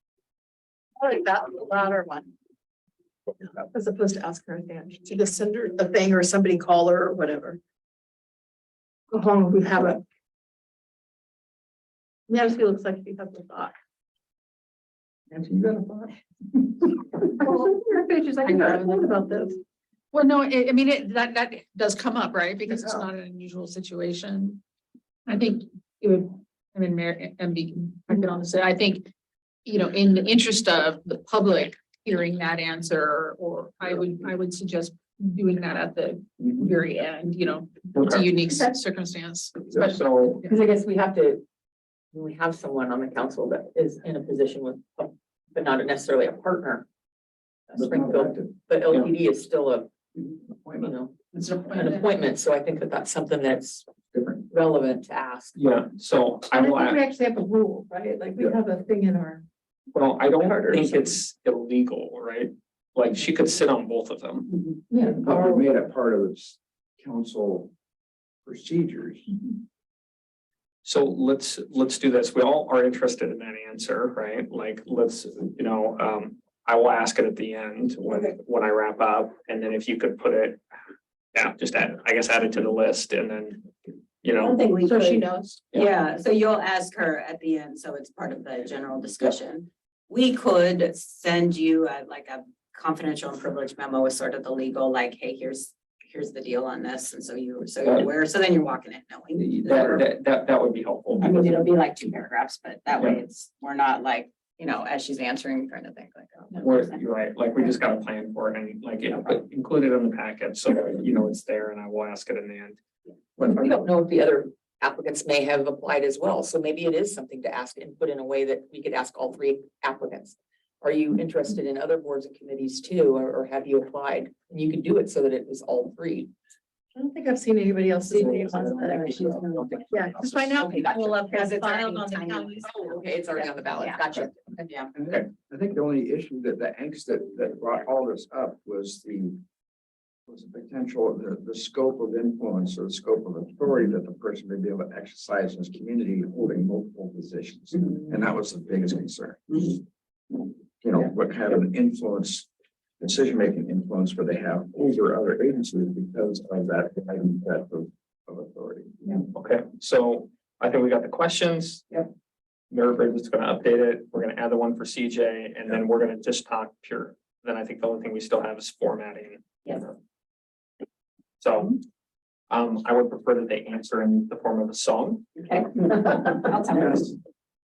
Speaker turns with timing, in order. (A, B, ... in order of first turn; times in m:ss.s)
0:01.0-0:02.3 A
0:03.4-0:07.6 A
0:09.1-0:10.0 A
0:12.3-0:13.7 A
0:15.3-0:16.1 B
0:17.3-0:19.6 A
0:17.4-0:19.4 C
0:20.1-0:24.6 C
0:25.3-0:29.1 C
0:29.6-0:40.5 C
0:37.9-0:38.3 D
0:39.7-0:40.4 D
0:40.4-0:41.4 E
0:42.1-0:46.8 E
0:47.7-0:49.9 E
0:47.7-0:48.5 B
0:50.2-0:50.9 B
0:50.8-0:51.1 E
0:51.3-0:52.1 C
0:51.7-0:53.8 E
0:54.1-0:54.4 B
0:54.5-0:55.6 E
0:55.5-0:57.0 D
0:56.5-0:59.4 A
0:59.9-1:04.6 D
1:00.2-1:01.2 A
1:04.9-1:05.6 A
1:05.2-1:07.7 B
1:08.4-1:09.3 B
1:10.8-1:20.6 D
1:21.3-1:23.7 D
1:24.2-1:24.6 D
1:24.4-1:25.2 F
1:24.8-1:25.6 C
1:25.7-1:40.0 F
1:37.8-1:38.1 D
1:39.4-1:41.6 D
1:41.2-1:47.0 F
1:46.6-1:52.8 D
1:53.4-2:06.3 E
2:06.9-2:12.6 A
2:08.1-2:10.6 D
2:09.1-2:09.6 E
2:10.2-2:11.4 E
2:10.6-2:13.0 F
2:12.6-2:14.6 E
2:13.8-2:14.1 F
2:14.6-2:14.9 F
2:15.0-2:19.4 B
2:20.3-2:29.8 B
2:30.3-2:32.5 B
2:33.0-2:39.2 B
2:39.3-2:42.1 D
2:42.7-2:49.9 D
2:51.4-2:51.8 D
2:52.5-2:55.3 D
2:55.4-2:57.1 F
2:56.7-2:57.2 B